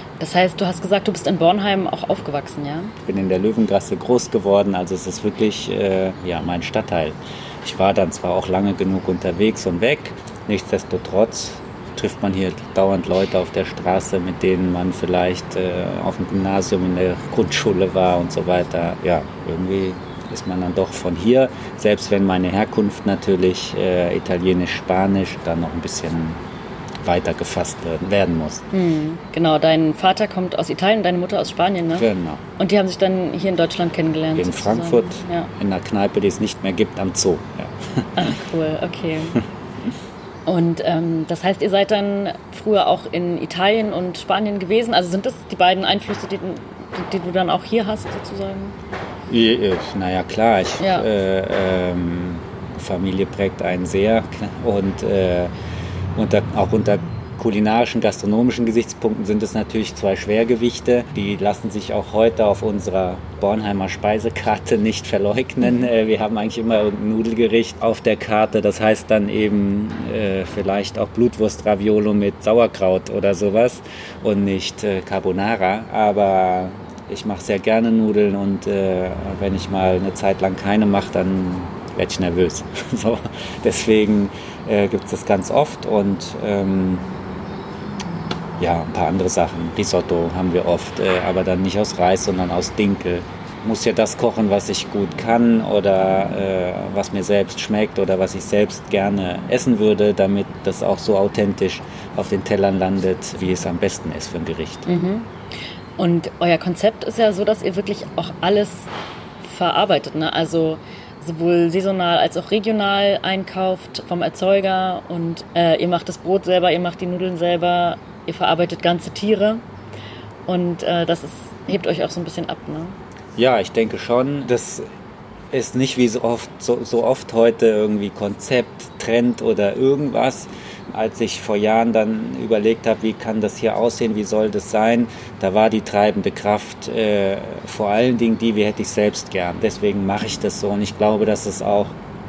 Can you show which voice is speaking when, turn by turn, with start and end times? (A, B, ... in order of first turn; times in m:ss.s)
0:00.2-0:02.9 A
0:03.0-0:26.4 B
0:27.0-0:28.7 B
0:28.7-0:32.1 A
0:32.0-0:32.4 B
0:32.6-0:35.5 A
0:34.4-0:38.3 B
0:38.2-0:39.4 A
0:40.4-0:48.8 A
0:49.3-0:55.5 B
0:50.8-0:51.1 A
0:56.1-1:27.0 B
1:28.6-1:44.9 B
1:44.8-1:45.3 A
1:46.0-1:59.6 A
2:00.5-2:03.0 A
2:03.4-2:04.9 B
2:05.5-2:22.0 B